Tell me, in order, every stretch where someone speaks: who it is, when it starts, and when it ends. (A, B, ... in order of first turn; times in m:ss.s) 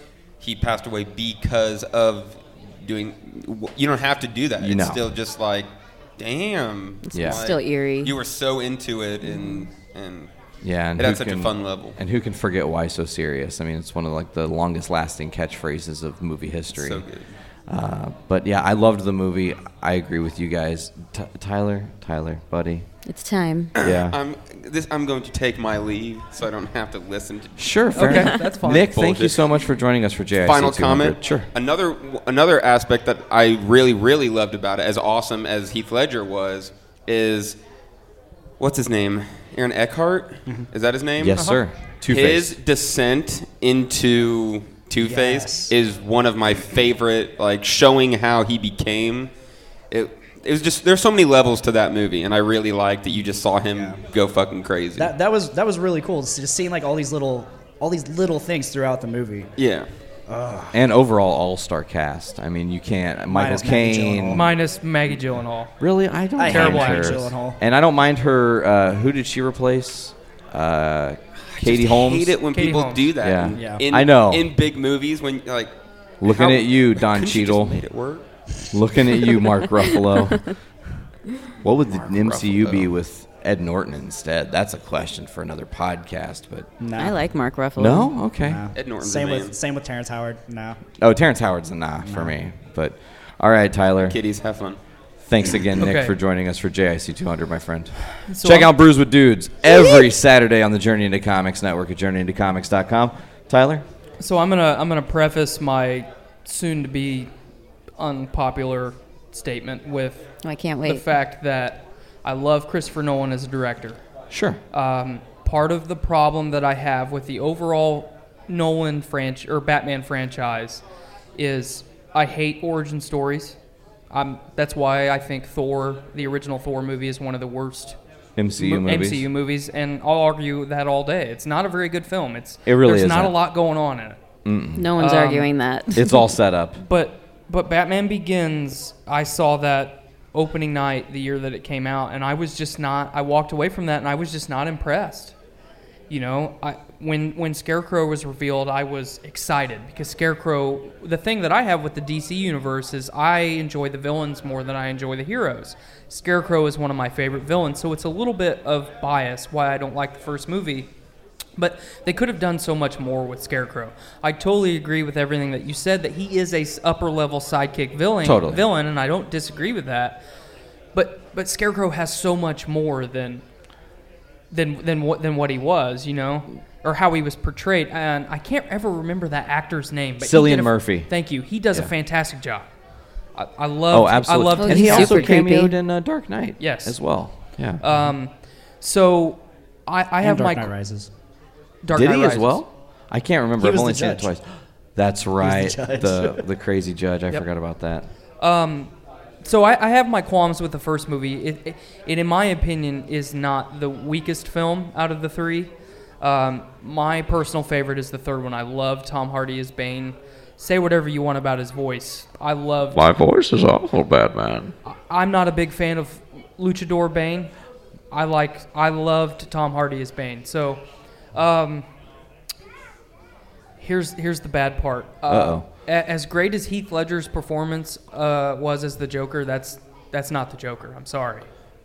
0:00.4-0:10.3 A
0:04.6-0:05.0 B
0:07.1-0:08.1 C
0:07.1-0:07.4 B
0:10.6-0:17.0 B
0:11.0-0:12.0 A
0:16.7-0:17.2 A
0:17.7-0:22.8 B
0:23.0-0:23.7 C
0:23.8-0:29.5 A
0:23.8-0:24.2 B
0:27.6-0:31.5 B
0:27.9-0:29.0 D
0:30.4-0:37.6 A
0:38.6-0:41.5 A
0:41.2-0:42.6 B
0:42.1-0:49.3 A
0:45.0-0:45.7 E
0:49.9-0:55.1 A
0:53.7-0:54.0 E
0:55.0-0:59.5 E
0:59.6-0:59.9 A
1:00.3-1:00.8 E
1:00.7-1:04.5 B
1:03.3-1:04.5 E
1:04.3-1:05.7 D
1:05.8-1:12.4 B
1:06.4-1:07.6 E
1:06.4-1:07.2 D
1:11.5-1:15.7 A
1:12.5-1:13.2 D
1:13.2-1:14.5 B
1:13.5-1:13.8 E
1:16.2-1:17.8 B
1:16.2-1:18.2 A
1:18.7-1:20.6 B
1:21.6-1:26.7 B
1:22.0-1:22.8 A
1:26.8-1:27.2 E
1:27.0-1:28.1 C
1:27.8-1:28.6 B
1:28.4-1:30.8 E
1:28.7-1:29.5 A
1:31.0-1:34.2 B
1:32.0-1:32.3 E
1:34.0-1:34.8 A
1:35.2-1:43.8 B
1:35.8-1:36.1 D
1:38.2-1:38.7 D
1:44.2-1:47.3 D
1:48.0-1:50.3 D
1:50.4-1:51.0 C
1:50.8-1:54.0 D
1:54.3-1:54.6 B
1:54.7-2:00.8 D
2:01.4-2:03.6 D
2:04.1-2:08.0 D
2:08.4-2:09.2 B
2:08.6-2:14.2 D
2:12.6-2:13.4 B
2:14.4-2:14.9 B
2:14.8-2:16.2 C
2:15.0-2:15.5 D
2:15.9-2:16.8 B
2:16.8-2:25.3 D
2:26.1-2:40.9 D
2:41.6-2:50.2 D
2:48.2-2:48.6 B
2:50.9-2:53.4 D
2:54.5-3:02.7 D
3:00.2-3:01.1 B
3:03.3-3:05.4 D
3:03.9-3:07.8 B
3:04.5-3:05.7 C
3:06.6-3:10.7 D
3:10.2-3:11.1 E
3:11.8-3:12.6 D
3:11.9-3:14.4 B
3:13.6-3:14.3 E
3:15.0-3:18.1 B
3:15.4-3:16.4 E
3:18.4-3:33.1 D
3:32.9-3:34.7 B
3:34.9-3:37.5 D
3:38.1-3:41.8 D
3:43.8-3:51.5 D
3:45.3-3:45.7 B